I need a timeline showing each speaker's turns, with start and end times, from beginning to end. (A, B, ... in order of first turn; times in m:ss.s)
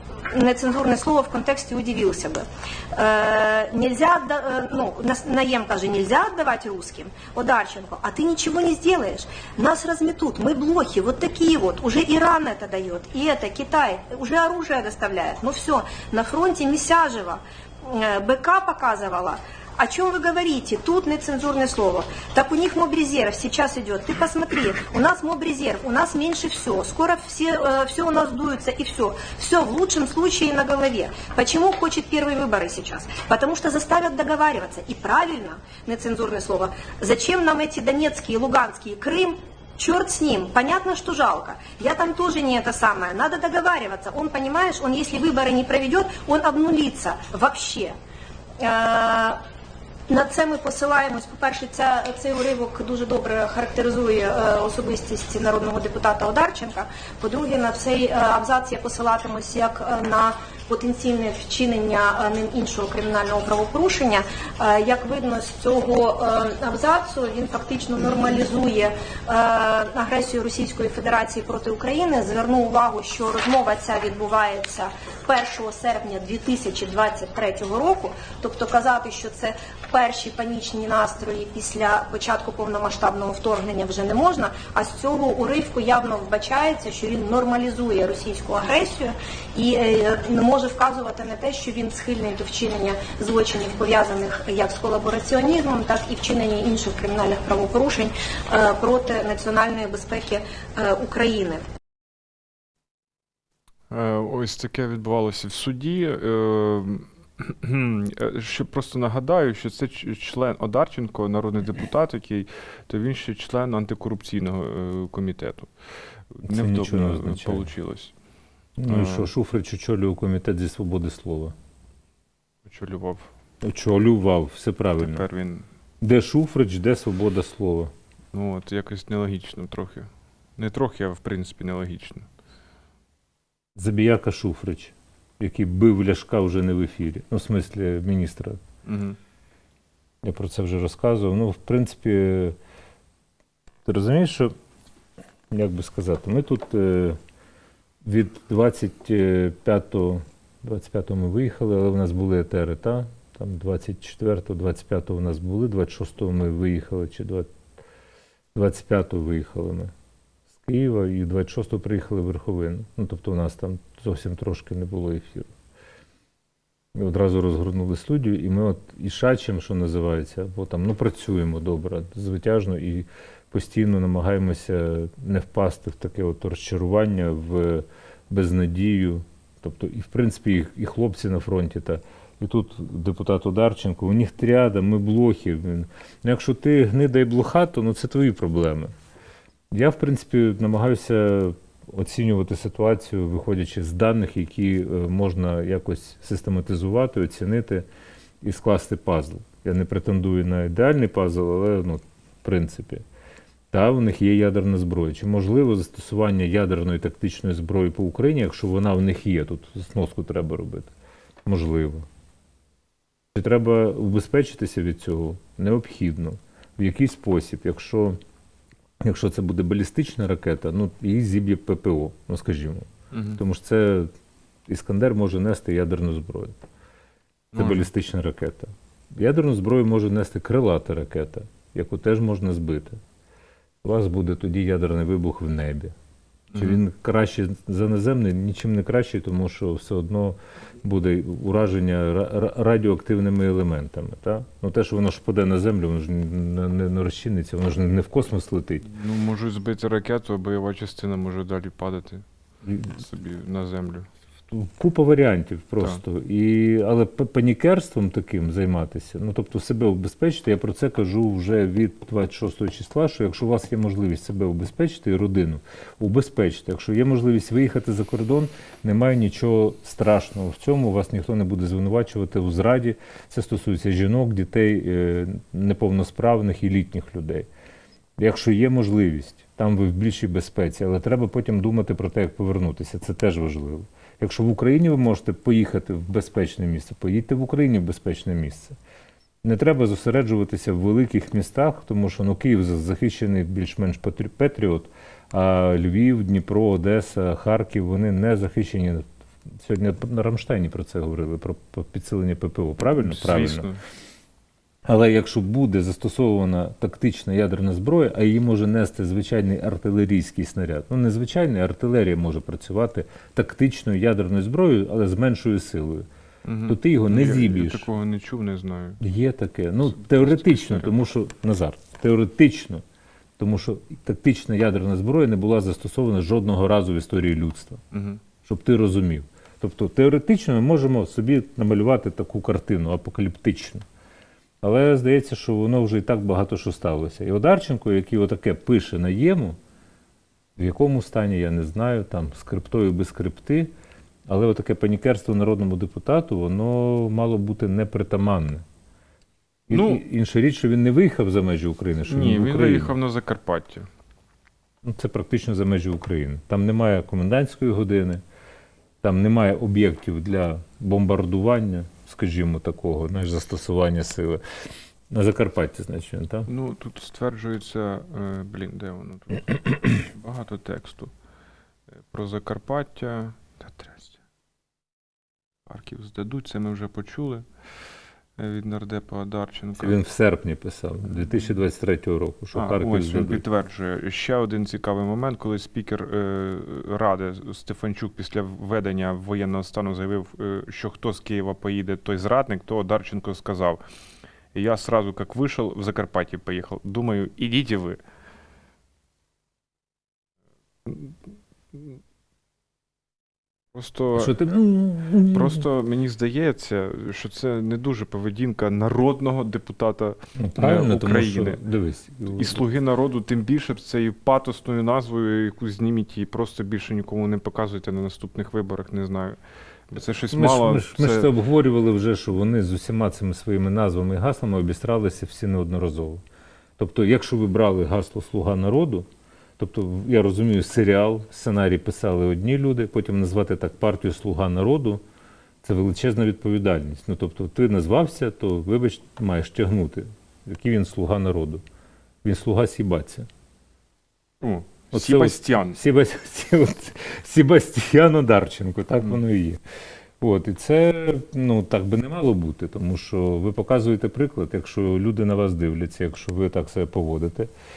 0:00.3-0:48.0 A
0:48.6-0:49.4 A
0:50.1-1:41.6 A
1:43.9-1:55.7 B
1:56.3-1:58.1 B
1:56.4-1:57.7 C
1:58.8-2:01.5 C
1:58.9-1:59.3 B
2:02.6-2:03.3 B
2:03.6-2:05.3 C
2:05.0-2:05.7 B
2:06.0-2:07.9 C
2:08.3-2:12.3 B
2:13.8-2:18.6 C
2:18.8-2:19.2 B
2:20.2-2:22.6 C
2:23.8-2:24.5 C
2:25.5-2:27.2 C
2:28.0-2:37.5 C
2:38.6-2:39.9 C
2:40.6-2:45.5 C
2:47.0-3:08.9 C
3:09.7-3:17.9 C
3:18.4-3:23.0 C
3:23.7-3:30.9 C
3:31.5-3:32.1 C
3:33.4-3:38.2 C
3:39.0-3:44.1 C
3:43.1-3:43.4 B
3:44.7-3:46.6 C
3:47.5-3:47.9 B
3:47.6-3:53.0 C
3:53.8-3:55.9 C
3:56.5-3:56.8 B
3:56.6-4:08.9 C
4:08.8-4:12.2 B
4:12.7-4:12.9 C
4:12.9-4:14.1 B
4:14.5-4:37.5 C
4:38.2-4:48.8 C
4:49.4-4:59.0 C
4:59.6-5:03.7 C
5:02.9-5:03.8 B
5:04.9-5:16.1 C
5:16.4-5:19.0 B
5:16.7-5:17.9 C
5:19.0-5:22.8 C
5:20.0-5:21.0 B
5:23.4-5:27.8 C
5:27.9-5:28.2 B
5:28.4-5:33.8 C
5:34.6-5:39.6 C
5:40.6-5:43.7 C
5:44.3-5:48.6 C
5:49.7-5:50.0 B
5:49.7-5:53.0 C
5:52.1-5:53.9 B
5:54.8-5:58.2 C
5:59.0-6:04.4 C
6:05.1-6:06.5 C
6:06.5-6:11.1 B
6:12.1-6:14.2 B
6:15.7-6:17.4 B
6:18.4-6:20.0 B
6:19.8-6:23.4 C
6:22.5-6:33.8 B
6:34.5-6:38.0 B
6:40.9-6:41.1 B
6:43.7-6:44.4 B
6:44.1-6:45.7 C
6:45.2-6:51.6 B
6:50.4-6:52.6 C
6:52.3-6:59.4 B
6:59.9-7:01.3 B
7:00.3-7:06.2 C
7:06.8-7:09.1 C
7:09.6-7:15.0 C
7:15.6-7:21.6 C
7:22.2-7:23.3 C
7:24.4-7:25.8 B
7:24.9-7:29.6 C
7:30.2-7:37.5 C